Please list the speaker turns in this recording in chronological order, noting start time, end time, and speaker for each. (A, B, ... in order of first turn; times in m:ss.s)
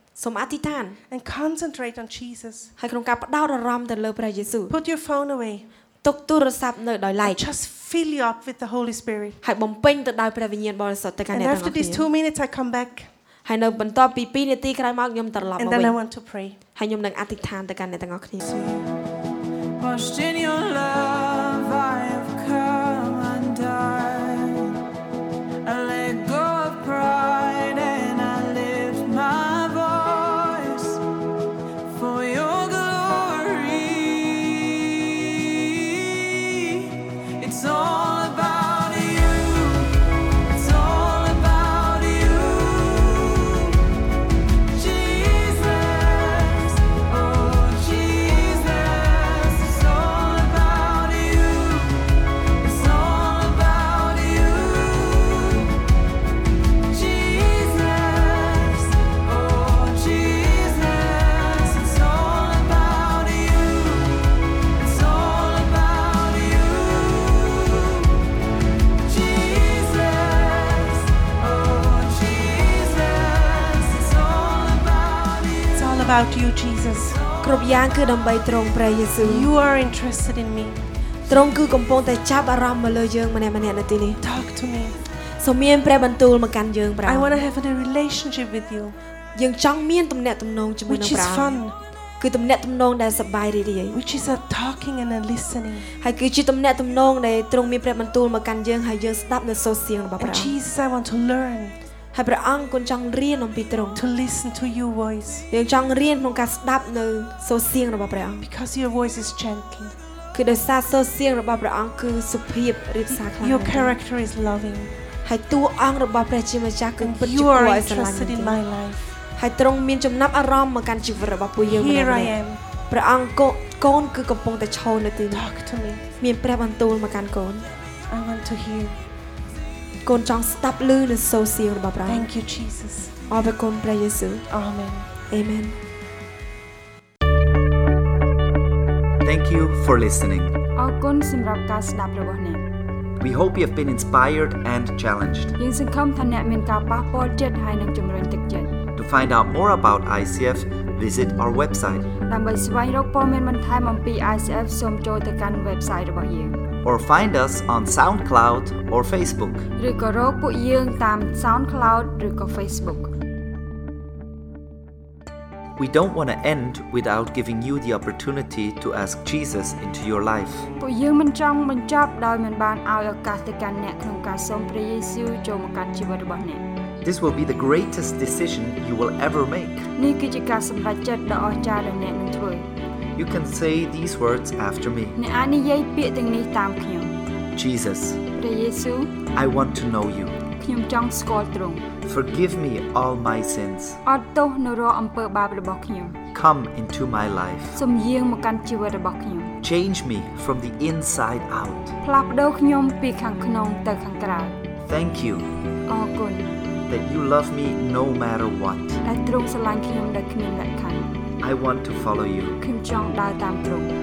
0:00.2-0:01.0 A
0:01.1-0:02.7 B
0:02.8-0:04.7 A
0:04.7-0:05.6 B
0:06.0-0:07.4 A
0:07.2-0:09.4 B
0:09.4-0:12.1 A
0:11.3-0:13.1 B
0:13.4-0:15.9 A
0:15.6-0:16.6 B
0:16.7-0:18.4 A
0:18.4-0:18.9 C
0:19.8-0:24.8 C
0:25.6-0:31.0 C
0:31.8-0:43.9 C
0:44.7-0:52.0 C
0:52.6-0:55.8 C
0:56.9-1:08.2 C
1:09.0-1:15.9 C
1:15.7-1:17.2 B
1:17.1-1:17.7 C
1:17.4-1:19.5 A
1:19.2-1:20.8 B
1:21.3-1:24.2 A
1:24.2-1:25.0 B
1:25.4-1:27.4 A
1:27.0-1:29.0 B
1:29.4-1:31.6 A
1:30.9-1:31.8 B
1:32.2-1:34.0 A
1:33.9-1:35.9 B
1:36.0-1:40.5 A
1:40.2-1:41.7 B
1:42.1-1:44.0 A
1:43.9-1:45.4 B
1:45.5-1:48.4 A
1:48.4-1:49.9 B
1:50.3-1:53.9 A
1:53.1-1:55.0 B
1:55.2-1:58.6 A
1:57.0-1:59.2 B
1:59.4-2:02.3 A
2:01.6-2:02.6 B
2:02.9-2:05.4 A
2:05.3-2:06.0 B
2:06.2-2:07.7 A
2:08.1-2:09.0 B
2:10.0-2:12.2 A
2:12.0-2:13.1 B
2:13.3-2:14.4 A
2:14.5-2:15.1 B
2:15.3-2:15.8 A
2:19.2-2:20.6 D
2:20.8-2:22.6 E
2:23.2-2:25.5 D
2:25.6-2:28.8 E
2:28.9-2:32.1 D
2:32.2-2:36.6 E
2:36.8-2:39.7 D
2:39.8-2:43.1 E
2:45.8-2:50.7 D
2:50.8-2:56.6 E
2:57.0-2:59.9 D
3:00.0-3:02.7 E
3:03.2-3:05.2 D
3:05.1-3:07.1 E
3:07.5-3:08.2 D
3:08.3-3:09.2 E
3:09.3-3:10.4 D
3:10.6-3:11.8 E
3:12.0-3:14.0 D
3:14.0-3:16.2 E
3:16.3-3:17.8 D
3:17.8-3:19.6 E
3:19.6-3:21.9 D
3:22.0-3:24.6 E
3:24.9-3:25.5 D
3:25.9-3:26.5 E
3:26.9-3:29.0 D
3:29.0-3:31.1 E
3:31.4-3:32.6 D
3:32.6-3:33.9 E